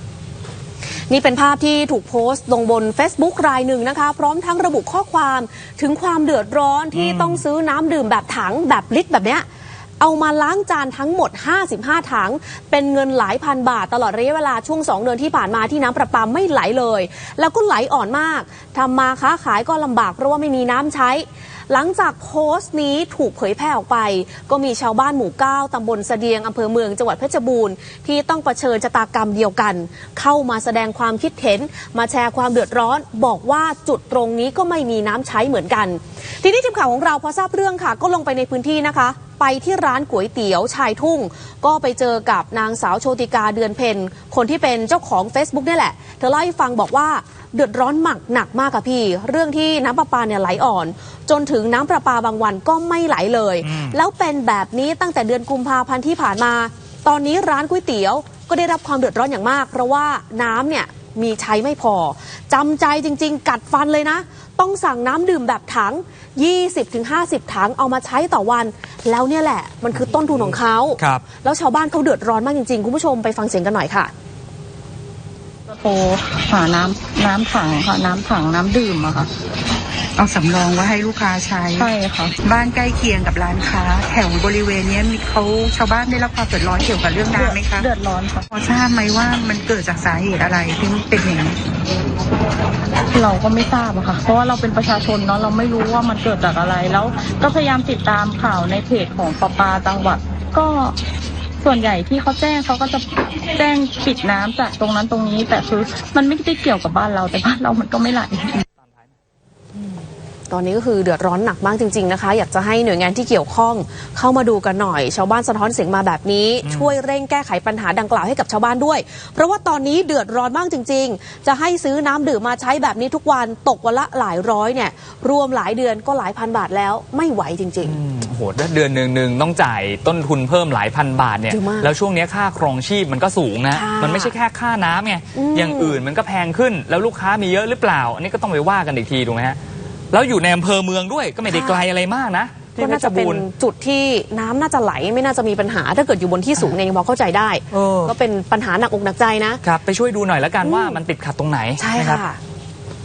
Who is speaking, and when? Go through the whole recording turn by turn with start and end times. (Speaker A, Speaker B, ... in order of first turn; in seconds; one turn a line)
Speaker A: 0.9-9.4
Speaker B: 6.9-7.4
Speaker A: 10.0-74.1
Speaker B: 53.6-54.0
Speaker B: 71.0-71.2
Speaker C: 75.7-79.3
Speaker D: 80.2-81.9
Speaker C: 81.8-82.3
Speaker D: 82.4-87.9
Speaker C: 87.3-88.4
Speaker D: 88.5-91.6
Speaker C: 93.1-101.0
Speaker C: 101.6-108.6
Speaker A: 110.5-128.0
Speaker B: 116.6-117.0
Speaker B: 127.8-139.6
Speaker A: 131.5-131.9
Speaker A: 133.7-134.3
Speaker A: 135.3-136.0
Speaker B: 140.1-143.4
Speaker A: 141.5-141.8
Speaker A: 142.8-149.6
Speaker B: 147.7-148.1
Speaker B: 149.6-152.2
Speaker A: 150.6-151.0
Speaker A: 151.8-152.4